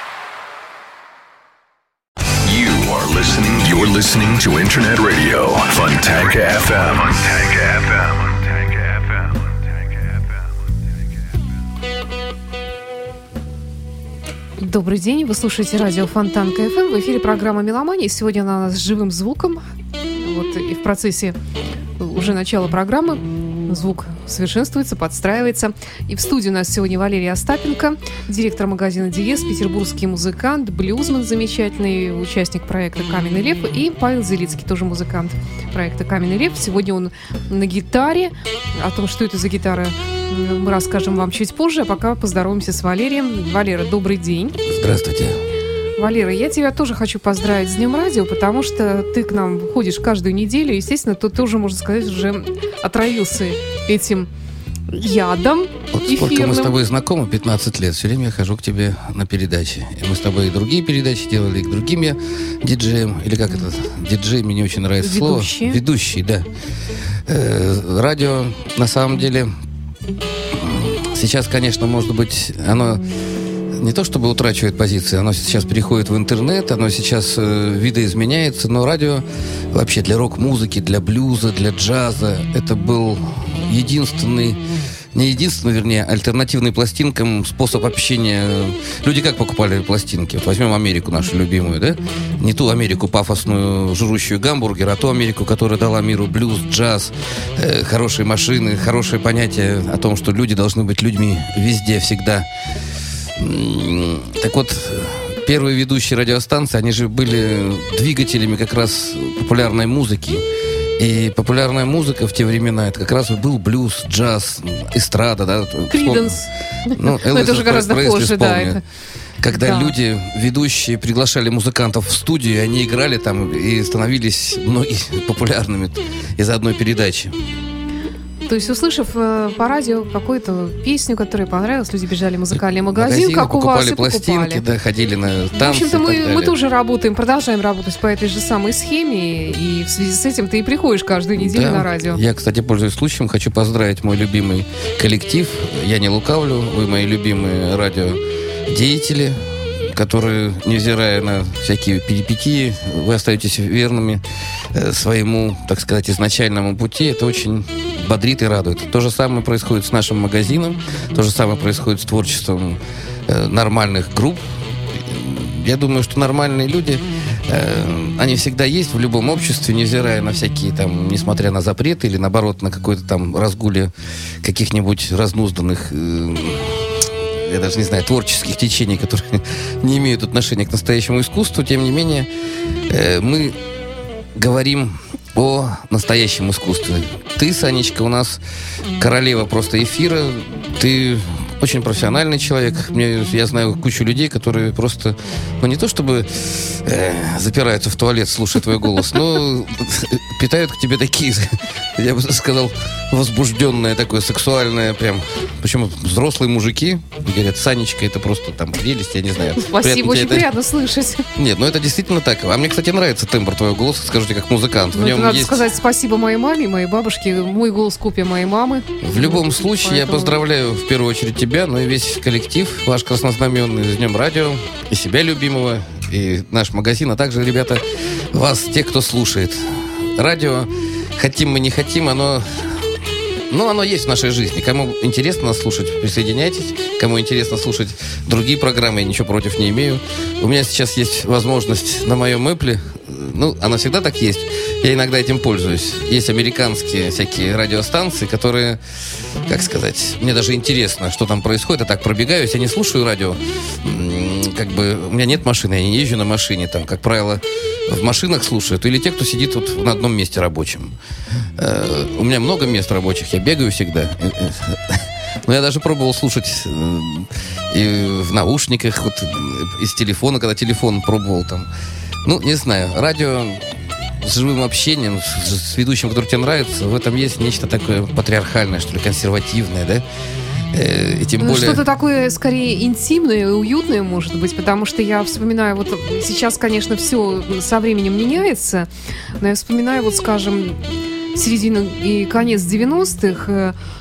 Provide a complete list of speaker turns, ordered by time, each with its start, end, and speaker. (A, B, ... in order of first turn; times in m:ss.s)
0:02.4-0:09.3 A
0:14.6-0:19.6 B
0:20.2-0:21.4 B
0:22.0-0:44.6 B
0:44.7-0:45.4 C
0:46.0-0:54.3 B
0:54.9-0:56.8 B
0:55.9-1:06.5 C
1:05.0-1:05.8 B
1:07.3-1:09.5 C
1:10.5-1:13.0 C
1:13.7-1:24.6 C
1:25.1-1:42.5 C
1:43.4-1:50.4 C
1:51.0-1:56.4 C
1:55.9-1:58.8 B
1:57.0-1:58.8 C
1:59.4-2:07.4 C
1:59.5-2:00.0 B
2:08.5-2:14.6 B
2:12.9-2:16.6 C
2:15.5-2:22.2 B
2:21.4-3:02.3 C
3:02.9-3:03.6 C
3:04.4-3:08.4 C
3:09.0-3:30.5 C
3:29.6-3:31.3 B
3:31.4-3:35.6 C
3:34.9-3:40.4 B
3:39.0-3:47.8 C
3:48.3-3:52.6 C
3:53.5-4:08.8 C
4:09.5-4:21.0 C
4:21.6-4:31.7 C
4:32.2-4:40.0 C
4:40.7-4:41.8 C
4:41.4-4:48.9 B
4:49.4-4:53.8 B